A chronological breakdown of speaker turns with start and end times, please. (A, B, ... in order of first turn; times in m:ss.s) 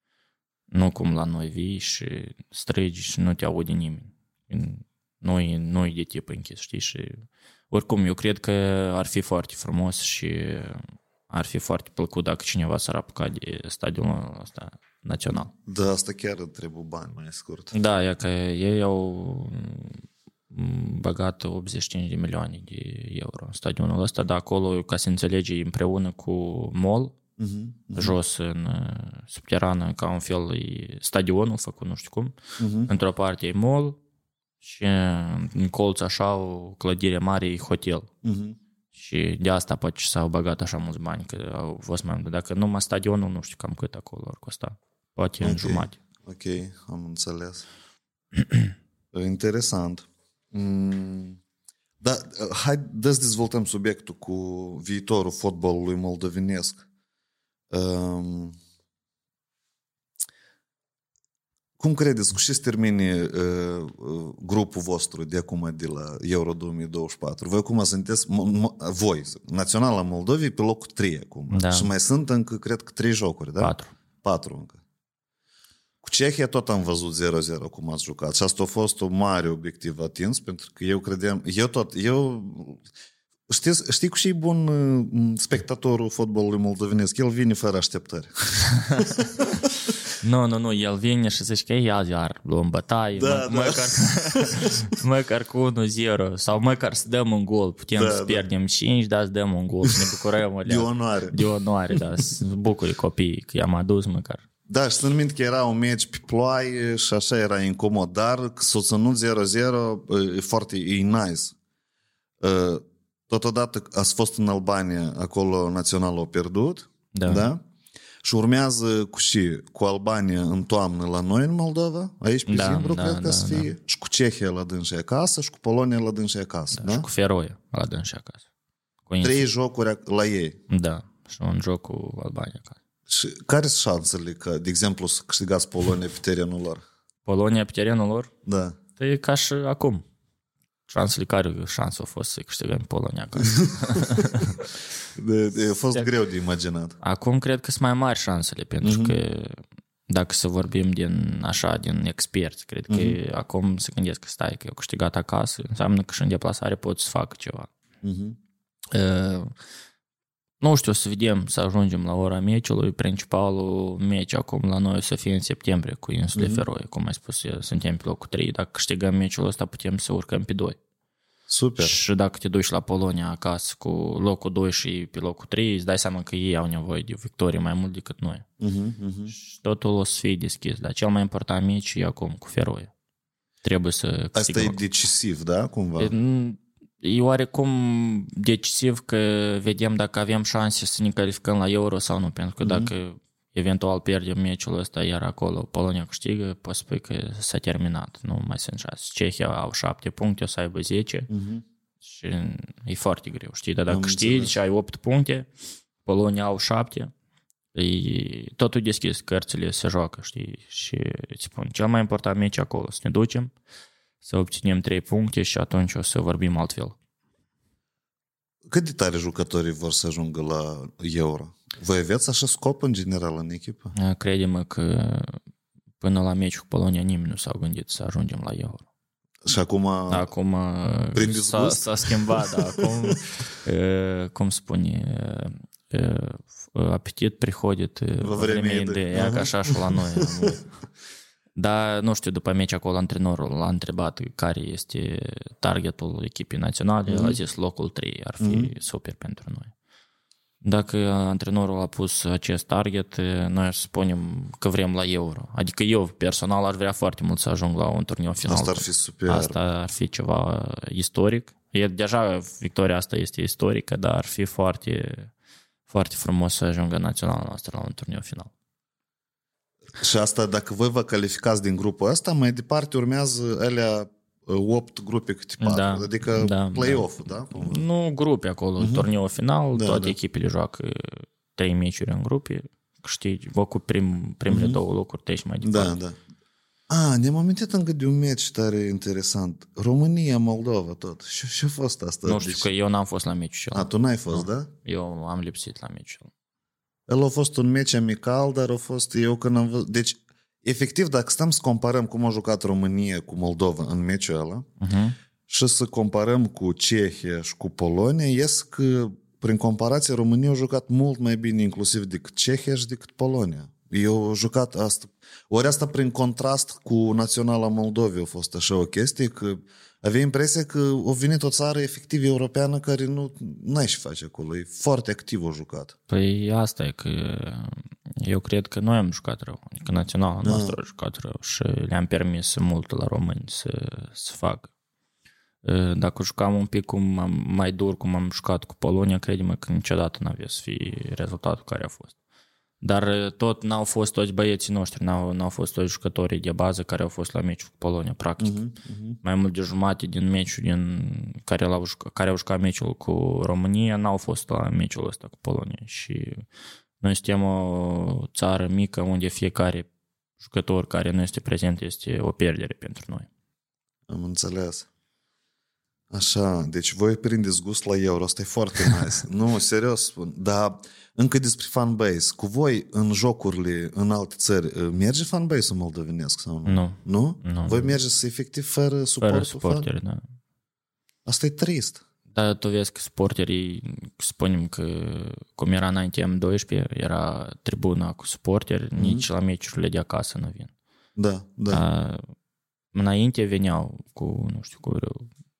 0:00.7-0:15.5 A
0:15.6-0:17.7 B
0:17.7-0:27.1 A
0:27.4-0:28.1 B
0:27.9-0:34.0 A
0:32.6-0:32.9 B
0:34.6-0:38.1 A
0:38.2-0:38.6 B
0:38.9-0:46.0 A
0:45.4-0:47.6 B
0:48.4-0:48.7 A
0:49.1-0:51.4 B
0:52.0-0:56.8 B
0:57.7-0:58.6 B
1:01.8-1:14.8 B
1:11.5-1:11.9 A
1:13.6-1:13.9 A
1:16.0-1:22.8 B
1:23.5-1:29.1 B
1:30.2-1:44.4 A
1:33.2-1:34.7 B
1:38.0-1:38.4 B
1:40.6-1:41.4 B
1:44.7-1:51.5 B
1:52.4-1:57.6 B
1:57.1-1:57.5 A
1:58.2-2:07.0 B
2:02.5-2:03.7 A
2:06.7-2:08.4 A
2:09.1-2:09.4 A
2:09.2-2:10.6 B
2:10.7-2:12.8 A
2:13.1-2:16.8 B
2:17.2-2:18.3 A
2:18.4-2:18.8 B
2:19.0-2:20.0 A
2:20.9-2:24.6 A
2:25.1-2:27.0 B
2:27.0-2:37.7 A
2:28.8-2:29.2 B
2:32.9-2:33.2 B
2:38.0-2:38.4 B
2:38.9-2:39.5 A
2:40.6-2:50.8 A
2:46.3-2:46.6 B
2:51.5-2:52.0 B
2:51.8-2:58.4 A
2:58.6-2:59.3 B
2:59.3-3:02.9 A
3:03.6-3:04.8 A
3:04.3-3:06.1 B
3:06.0-3:21.3 A
3:12.6-3:12.9 B
3:21.3-3:21.6 B
3:22.0-3:25.5 A
3:23.9-3:24.5 B
3:26.0-3:27.1 A
3:27.7-3:33.5 A
3:34.2-3:37.0 A
3:38.7-3:43.9 B
3:43.9-3:45.4 A
3:46.0-3:48.8 A
3:49.4-3:50.2 B
3:50.1-4:00.6 A
3:51.1-3:53.1 B
3:58.2-4:00.6 B
4:01.6-4:09.7 A
4:07.1-4:07.4 B
4:08.4-4:08.7 B
4:10.6-4:25.3 A
4:18.4-4:19.6 B
4:25.9-4:28.5 A
4:30.0-4:37.8 B
4:35.6-4:45.9 A
4:38.8-4:39.0 B
4:39.7-4:40.2 B
4:44.5-4:44.8 B
4:45.6-4:46.2 B
4:46.9-4:52.7 B
4:52.2-4:56.3 A
4:53.7-4:54.7 B
4:57.1-5:04.7 B
5:04.8-5:05.1 A
5:05.5-5:25.9 B
5:26.1-5:34.7 A
5:30.4-5:30.8 B
5:35.6-5:42.1 A
5:42.8-5:48.6 A
5:48.4-5:49.2 B
5:49.2-5:56.4 A
5:57.0-5:59.9 A
6:00.4-6:03.3 A
6:04.1-6:04.9 B
6:06.1-6:19.9 B
6:16.6-6:17.9 A
6:19.2-6:20.2 A
6:21.2-6:22.0 B
6:22.3-6:30.7 A
6:29.0-6:29.2 B
6:31.2-6:31.8 B
6:31.7-6:32.2 A
6:32.9-6:35.3 A